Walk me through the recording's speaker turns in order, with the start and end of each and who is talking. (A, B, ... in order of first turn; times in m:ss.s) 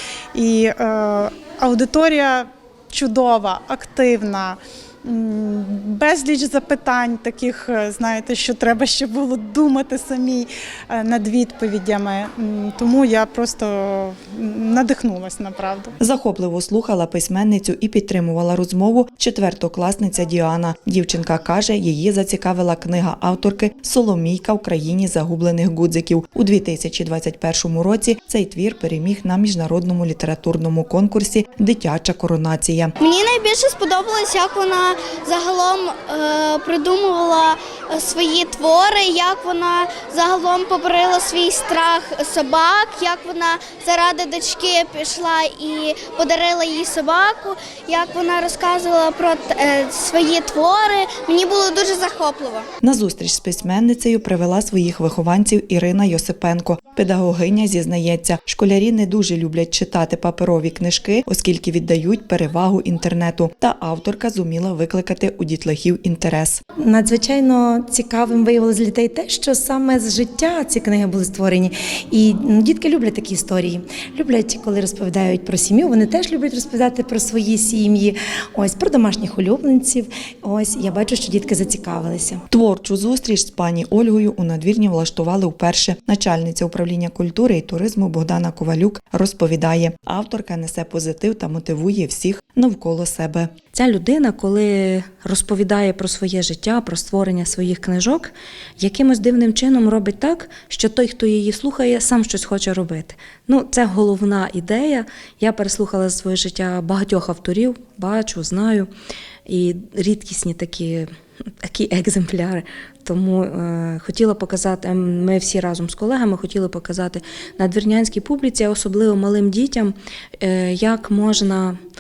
0:00.3-0:15.9 A
0:16.0-0:32.9 B
0:33.0-0:52.7 C
0:52.8-1:06.6 B
1:06.8-1:22.4 D
1:22.5-1:33.5 B
1:33.7-1:48.9 E
1:49.5-1:51.1 E
1:51.6-2:01.8 E